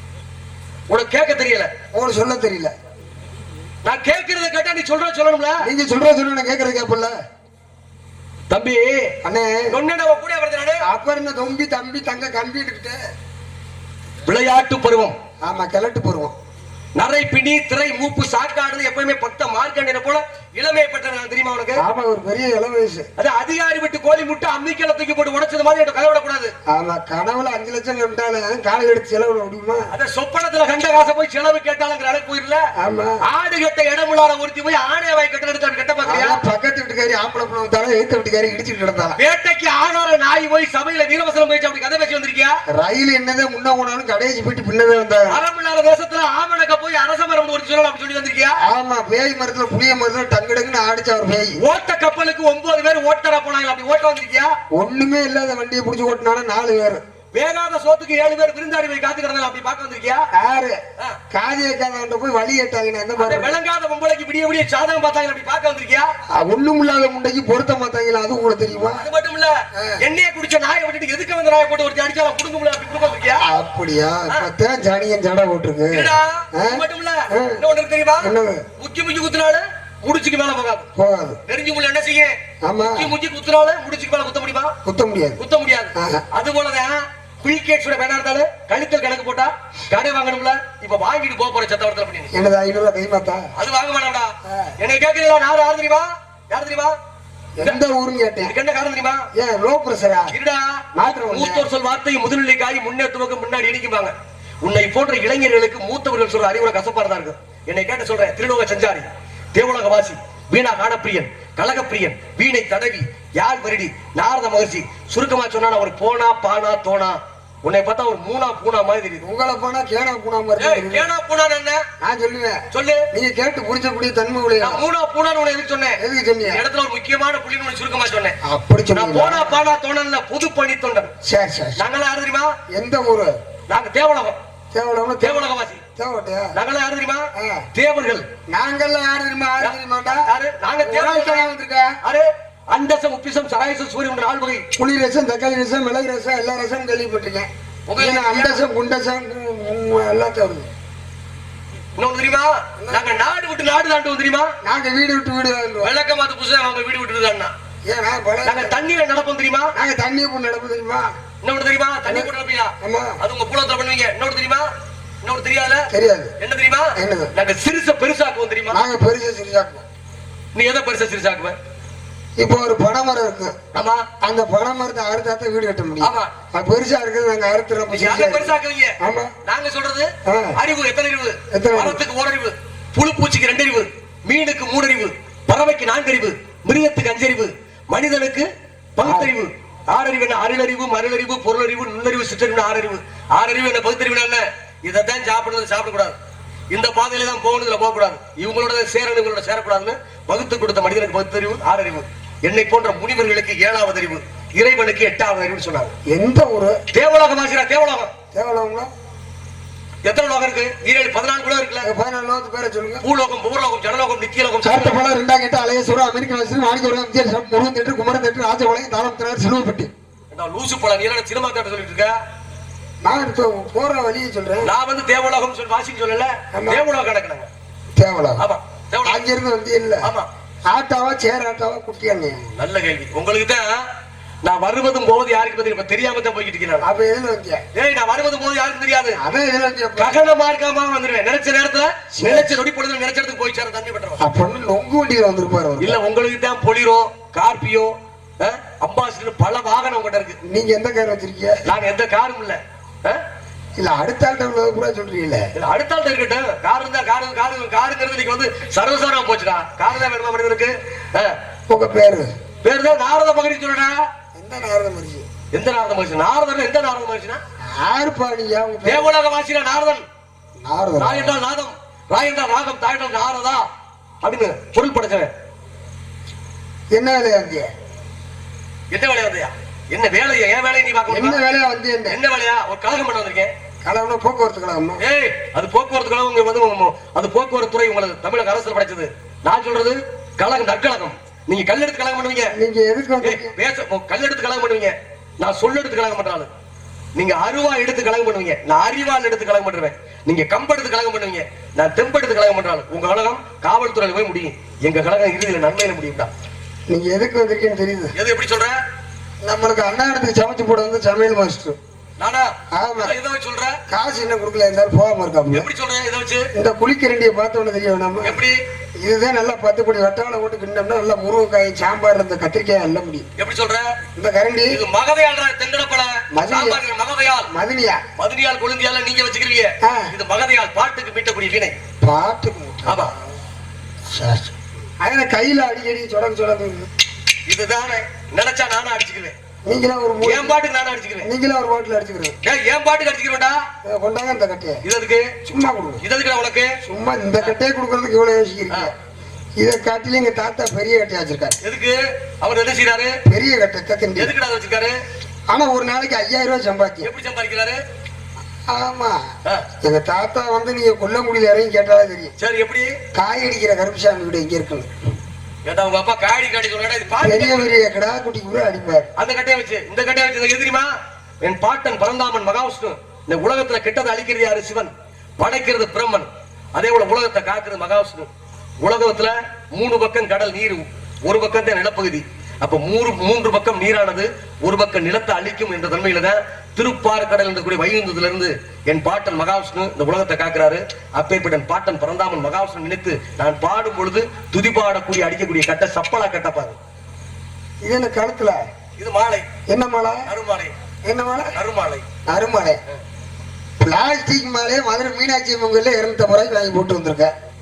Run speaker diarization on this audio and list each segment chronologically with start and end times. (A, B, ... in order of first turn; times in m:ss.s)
0:00.9-0:01.7 A
0:01.9-0:02.7 B
0:03.8-0:05.5 A
0:05.6-0:07.1 B
0:08.5-0:09.1 A
0:09.2-0:09.8 B
0:09.8-0:10.8 A
0:10.8-0:13.0 B
0:14.3-0:15.1 A
0:15.4-0:16.3 B
0:17.0-0:21.8 A
0:21.8-0:23.1 B
0:23.2-0:26.5 A
0:26.7-0:29.9 B
0:30.0-0:32.6 A
0:32.8-0:33.2 B
0:33.3-0:36.4 A
0:36.0-0:39.2 B
0:39.2-0:42.6 A
0:42.7-0:45.4 B
0:45.4-0:48.6 A
0:48.6-0:51.6 B
0:51.7-0:54.5 A
0:54.8-0:57.0 B
0:57.3-1:00.2 A
1:00.3-1:03.6 B
1:03.2-1:06.1 A
1:06.4-1:09.1 B
1:09.0-1:09.5 A
1:09.8-1:10.0 B
1:10.1-1:13.4 A
1:13.4-1:17.6 B
1:15.9-1:20.8 A
1:18.2-1:18.6 B
1:21.0-1:21.4 B
1:21.5-1:22.3 A
1:22.6-1:23.1 B
1:23.0-1:24.7 A
1:24.8-1:25.4 B
1:25.4-1:32.3 A
1:25.9-1:26.2 B
1:32.3-1:33.5 B
1:33.6-1:34.3 A
1:34.4-1:34.8 B
1:34.8-1:36.9 A
1:37.6-1:38.6 B
1:38.5-1:39.2 A
1:39.3-1:40.4 B
1:40.4-1:40.8 A
1:40.9-1:41.7 B
1:41.3-1:44.1 A
1:44.6-1:59.2 A
1:59.2-2:01.1 B
2:00.6-2:01.8 A
2:02.0-2:04.8 B
2:02.7-2:03.0 A
2:04.6-2:08.4 A
2:06.0-2:06.6 B
2:08.4-2:09.6 B
2:09.0-2:11.1 A
2:11.2-2:11.8 B
2:11.8-2:12.5 A
2:12.7-2:13.4 B
2:13.7-2:14.4 A
2:14.7-2:16.6 B
2:15.2-2:15.8 A
2:16.6-2:17.2 A
2:17.4-2:17.6 B
2:17.8-2:18.2 A
2:18.5-2:20.3 B
2:20.3-2:21.5 A
2:20.8-2:22.0 B
2:22.0-2:24.6 A
2:24.8-2:30.7 B
2:27.9-2:28.6 A
2:32.0-2:34.5 A
2:32.8-2:33.1 B
2:34.6-2:36.0 B
2:35.8-2:37.5 A
2:37.8-2:38.8 B
2:38.5-2:39.7 A
2:39.8-2:41.1 B
2:41.4-2:44.6 A
2:42.8-2:43.2 B
2:45.2-2:45.9 A
2:45.9-2:46.3 B
2:46.4-2:48.8 A
2:47.0-2:47.3 B
2:48.7-2:49.8 B
2:50.6-2:51.6 A
2:52.4-2:53.6 B
2:53.8-2:54.0 A
2:54.1-2:59.3 B
2:56.0-2:56.3 A
2:57.9-2:58.9 A
2:59.5-3:16.1 A
3:00.2-3:00.6 B
3:01.5-3:02.0 B
3:09.0-3:09.3 B
3:16.7-3:25.9 A
3:26.1-3:26.8 B
3:27.0-3:28.1 A
3:28.3-3:28.9 B
3:30.0-3:31.9 A
3:31.8-3:33.0 B
3:33.0-3:35.0 A
3:34.6-3:39.9 B
3:40.3-3:42.2 A
3:43.0-3:44.7 B
3:44.6-3:47.5 A
3:46.5-3:46.9 B
3:48.0-3:48.4 B
3:48.4-3:49.2 A
3:49.0-3:50.1 B
3:50.7-3:52.4 B
3:52.6-3:53.8 A
3:54.4-3:56.8 A
3:56.8-3:57.6 B
3:57.8-3:59.2 A
3:59.2-4:00.2 B
4:00.0-4:04.2 A
4:02.1-4:02.6 B
4:04.2-4:06.0 B
4:05.8-4:10.4 A
4:10.4-4:11.6 B
4:11.7-4:13.2 A
4:13.8-4:15.5 B
4:15.6-4:21.3 A
4:21.7-4:22.3 B
4:22.6-4:24.0 A
4:24.4-4:25.3 B
4:25.5-4:27.4 A
4:27.6-4:29.1 B
4:28.9-4:30.0 A
4:30.6-4:31.4 B
4:31.0-4:33.6 A
4:34.2-4:35.3 A
4:36.9-4:37.7 B
4:38.9-4:41.4 A
4:41.1-4:42.2 B
4:42.1-4:43.5 A
4:43.8-4:45.0 B
4:45.0-4:52.5 A
4:52.5-4:53.5 B
4:53.2-4:56.5 A
4:57.2-5:06.3 A
5:06.9-5:08.1 B
5:08.2-5:08.8 A
5:09.4-5:11.8 B
5:12.2-5:12.5 A
5:12.7-5:13.2 B
5:13.0-5:13.8 A
5:13.9-5:15.7 B
5:15.5-5:16.4 A
5:16.5-5:18.4 B
5:18.2-5:18.6 A
5:19.0-5:23.2 B
5:23.4-5:23.9 A
5:24.2-5:24.8 B
5:24.7-5:27.5 A
5:26.3-5:26.8 B
5:27.5-5:28.0 B
5:28.2-5:31.8 A
5:29.8-5:30.1 B
5:32.0-5:33.2 B
5:32.9-5:33.1 A
5:34.0-5:36.9 B
5:37.5-5:39.3 A
5:39.6-5:40.6 B
5:40.2-5:41.3 A
5:41.2-5:42.4 B
5:42.4-5:43.6 A
5:43.8-5:44.8 B
5:44.9-5:45.3 A
5:45.4-5:46.0 B
5:46.0-5:46.7 A
5:46.8-5:48.9 B
5:49.6-5:51.6 B
5:51.6-5:53.1 A
5:53.2-5:54.3 B
5:54.2-5:55.0 A
5:55.5-5:57.1 B
5:57.0-5:57.8 A
5:58.7-5:59.3 B
5:59.8-6:02.3 B
6:02.4-6:03.0 A
6:03.1-6:04.9 B
6:05.6-6:07.7 A
6:07.2-6:09.1 B
6:09.2-6:10.9 A
6:11.4-6:18.3 A
6:18.8-6:36.8 A
6:37.8-6:38.6 B
6:39.0-6:39.4 A
6:39.7-6:40.3 B
6:40.3-6:40.7 A
6:41.0-6:41.6 B
6:41.6-6:42.0 A
6:42.3-6:42.8 B
6:43.8-6:47.3 B